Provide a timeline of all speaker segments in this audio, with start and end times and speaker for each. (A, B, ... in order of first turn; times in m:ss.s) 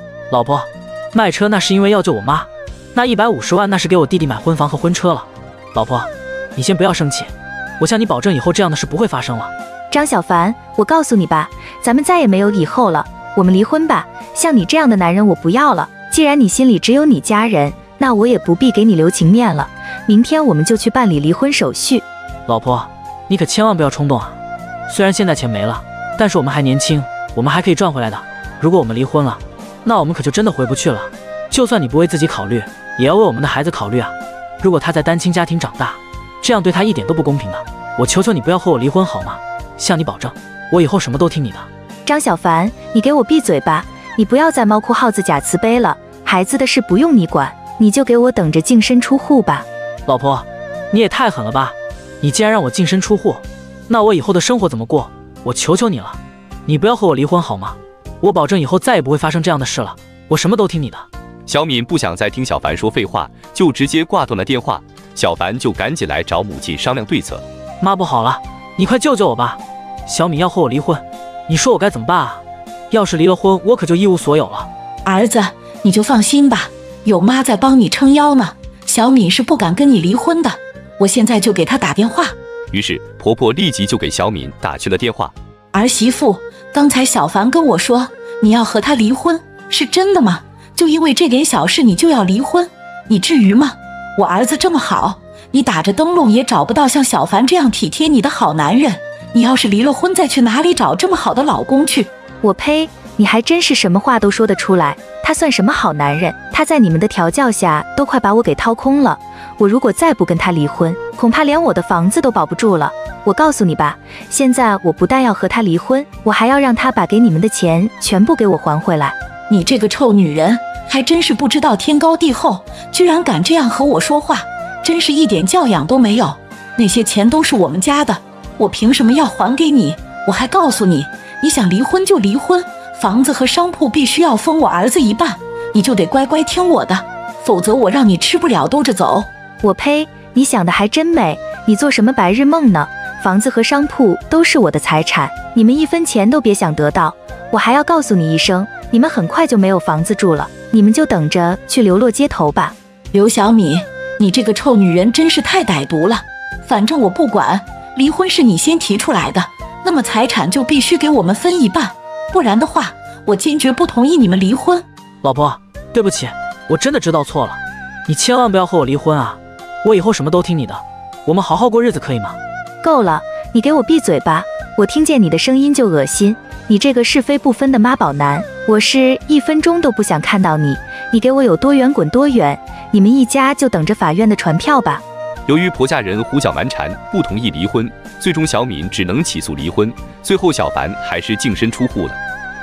0:00.3-0:09.5 A
0:09.9-0:22.0 B
0:22.5-0:41.7 A
0:42.1-0:49.7 B
0:50.1-1:01.1 A
1:01.5-1:07.4 C
1:07.8-1:14.7 A
1:15.0-1:22.4 D
1:22.7-1:25.3 C
1:25.7-1:42.1 D
1:42.4-1:59.2 B
1:59.5-2:19.3 D
2:19.6-2:32.8 B
2:33.1-2:44.8 D
2:45.2-2:52.4 A
2:52.8-3:05.0 B
3:05.5-3:12.2 C